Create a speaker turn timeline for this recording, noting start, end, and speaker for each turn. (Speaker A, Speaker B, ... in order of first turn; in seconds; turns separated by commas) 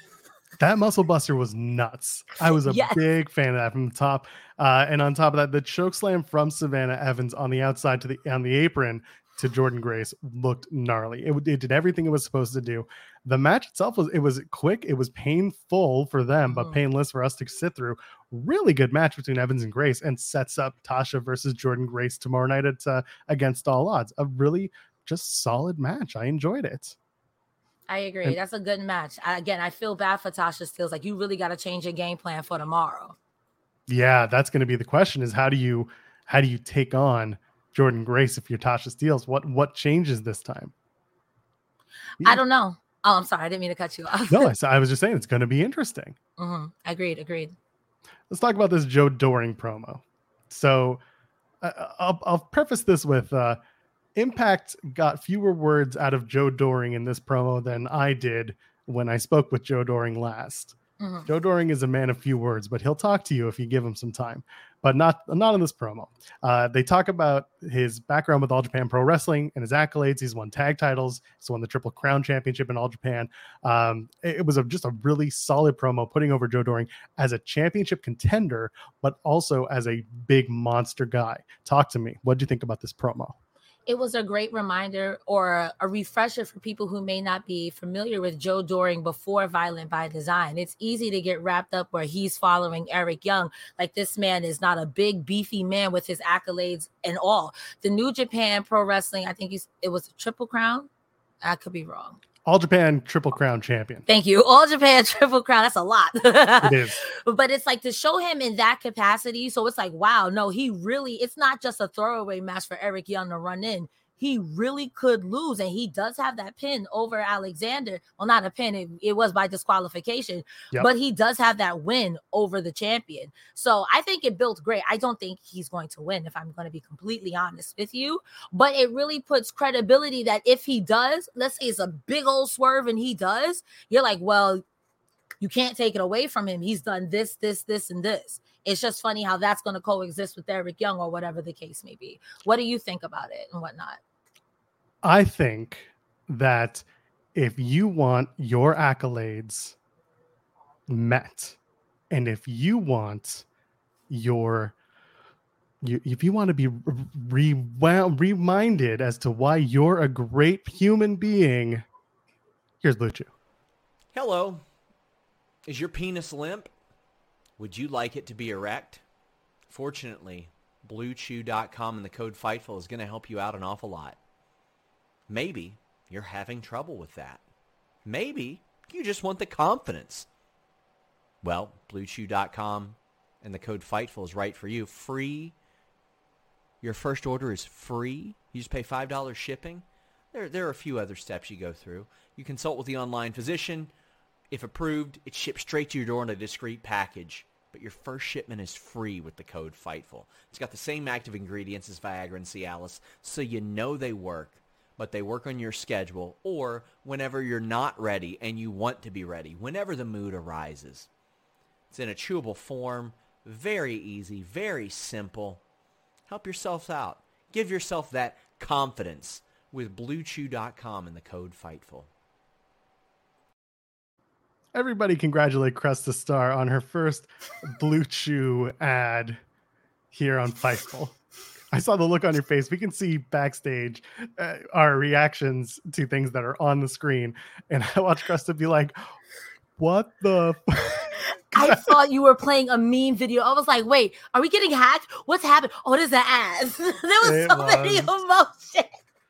Speaker A: 0.6-27.0, Speaker B: 2.5-3.0, Speaker B: 16.5-16.8, Speaker B: 27.9-33.2, Speaker A: 33.9-40.7, Speaker B: 42.2-44.5, Speaker A: 44.3-46.2, Speaker B: 46.4-47.5, Speaker A: 48.3-51.0, Speaker A: 51.6-53.6, Speaker A: 54.2-83.3, Speaker B: 61.0-61.3, Speaker B: 83.9-100.9, Speaker B: 101.4-102.2, Speaker A: 102.5-104.0, Speaker B: 104.1-134.6, Speaker A: 106.6-107.0, Speaker B: 135.4-144.0, Speaker A: 145.0-149.8, Speaker A: 150.9-151.6, Speaker A: 152.1-153.4, Speaker A: 154.1-154.8, Speaker A: 155.8-161.8, Speaker A: 162.8-163.3, Speaker C: 164.1-164.6, Speaker C: 165.7-166.7, Speaker C: 167.6-169.0, Speaker C: 169.7-174.2, Speaker C: 175.3-177.4, Speaker C: 178.1-180.3, Speaker C: 181.4-185.6, Speaker C: 186.8-193.9, Speaker C: 194.5-211.1, Speaker C: 211.9-215.6, Speaker C: 216.3-222.1, Speaker A: 224.7-229.4, Speaker A: 230.1-231.2, Speaker A: 231.7-239.0, Speaker A: 239.8-241.9, Speaker B: 241.6-249.0, Speaker A: 247.2-248.1